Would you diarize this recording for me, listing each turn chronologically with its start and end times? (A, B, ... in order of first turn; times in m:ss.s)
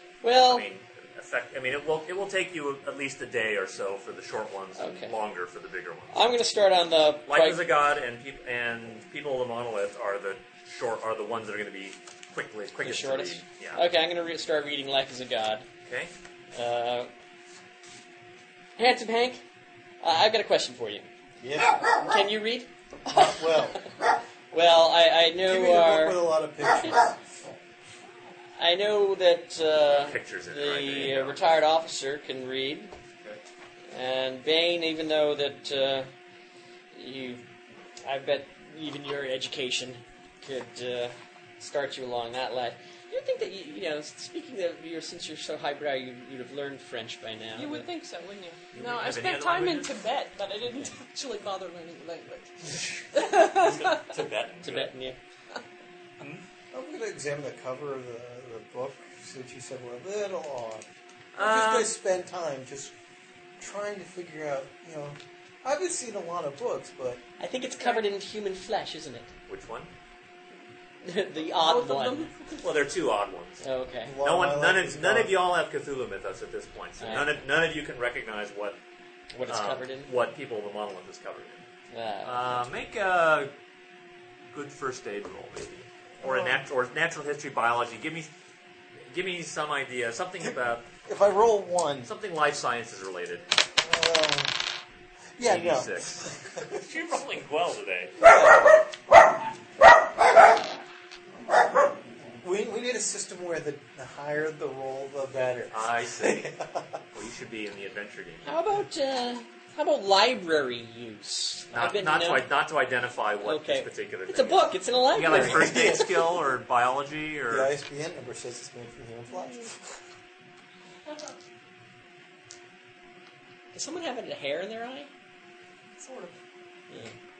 0:00.2-0:00.7 A
0:00.4-0:06.1 B
0:04.8-0:05.1 A
0:06.1-0:07.6 A
0:07.3-0:13.8 B
0:12.8-0:15.7 A
0:15.9-0:16.1 B
0:16.5-0:17.1 A
0:18.8-0:19.4 A
0:20.0-0:21.1 A
0:21.4-0:21.8 C
0:21.8-0:23.2 A
0:23.1-0:23.9 C
0:24.5-0:26.2 A
0:25.4-0:27.2 C
0:28.6-0:32.9 A
0:29.9-0:31.5 B
0:33.9-0:36.1 A
0:36.9-0:37.4 A
0:38.0-0:47.9 A
0:47.6-0:54.1 D
0:48.7-0:50.0 B
0:53.0-0:54.9 B
0:54.6-0:55.2 A
0:56.7-1:00.8 C
1:01.4-1:02.0 B
1:01.4-1:02.9 C
1:03.6-1:07.2 C
1:07.4-1:09.3 A
1:09.5-1:09.9 B
1:11.0-1:12.3 A
1:11.4-1:12.6 D
1:12.6-1:13.6 B
1:13.6-1:14.2 A
1:14.0-1:15.4 C
1:14.2-1:18.8 B
1:17.0-1:17.4 A
1:19.3-1:20.1 A
1:19.5-1:21.6 B
1:21.9-1:22.6 A
1:22.2-1:23.5 B
1:24.5-1:28.3 B
1:26.2-1:26.6 C
1:29.0-1:30.9 B
1:31.0-1:32.1 C
1:32.1-1:33.5 B
1:33.8-1:34.7 C
1:35.4-1:36.8 C
1:35.4-1:38.2 B
1:42.4-1:47.0 C
1:45.7-1:46.5 B
1:47.1-1:48.5 B
1:48.4-1:52.5 A
1:51.7-1:57.7 B
1:53.4-1:56.1 A
1:55.2-1:56.4 C
1:57.5-1:59.8 C
2:03.7-2:05.1 A
2:06.0-2:06.4 D
2:06.9-2:07.1 A